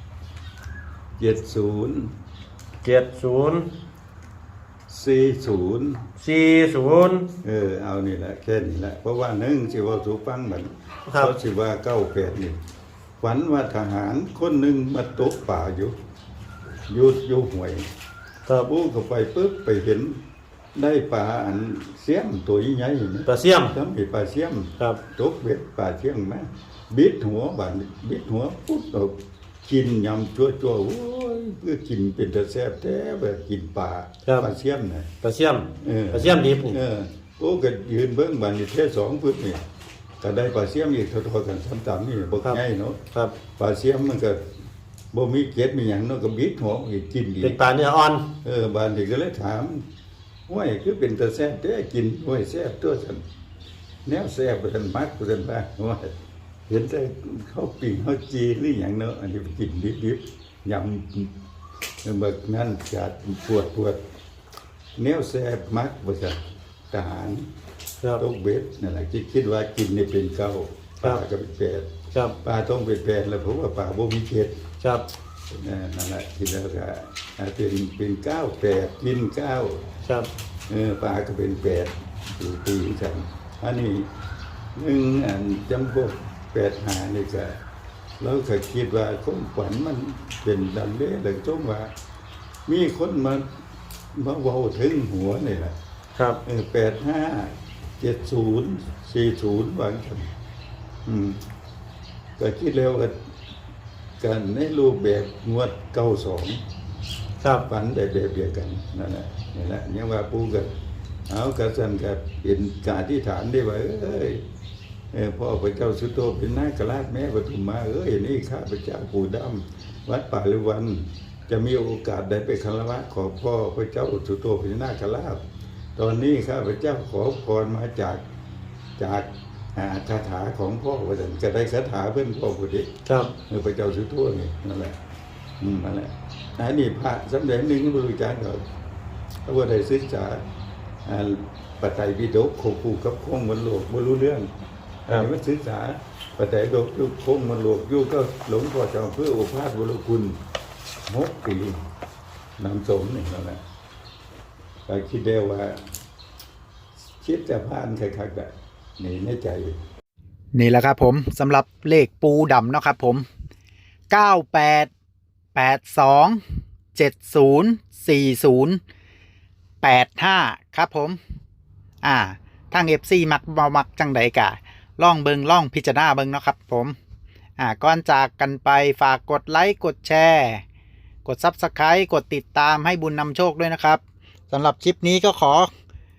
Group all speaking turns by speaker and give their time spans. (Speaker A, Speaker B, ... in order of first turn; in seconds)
Speaker A: 1.2-2.1, 4.9-6.0, 7.4-12.6, 13.2-15.9, 16.9-17.9, 18.6-20.2, 20.8-35.1, 35.8-39.6, 40.2-43.0, 43.6-44.4, 45.1-47.6, 48.4-49.8, 50.5-53.2, 54.0-56.1, 56.7-61.3, 62.0-64.0, 65.0-66.4, 66.9-67.5, 68.2-71.9, 72.4-74.6, 75.5-79.8, 80.7-84.1, 84.8-87.6, 88.2-91.9, 92.7-93.5, 94.2-95.8, 96.5-100.3, 101.1-101.4, 102.4-103.2, 104.2-106.6, 107.7-110.7, 111.3-114.4, 115.1-125.4, 126.0-128.2, 129.0-132.9, 133.5-134.9, 135.6-138.6, 139.5-140.4, 141.1-144.5, 145.1-150.4, 151.1-151.8, 152.6-153.6, 154.9-155.8, 157.2-159.8
Speaker B: 2.8-3.7, 6.2-7.3, 11.1-11.3, 23.3-23.7, 34.2-34.5, 35.2-36.8, 47.4-48.2, 133.1-133.3
Speaker C: 160.5-163.3, 164.1-164.9, 165.6-166.4, 166.9-168.8, 169.8-171.2, 172.0-177.0, 177.6-180.6, 181.2-185.7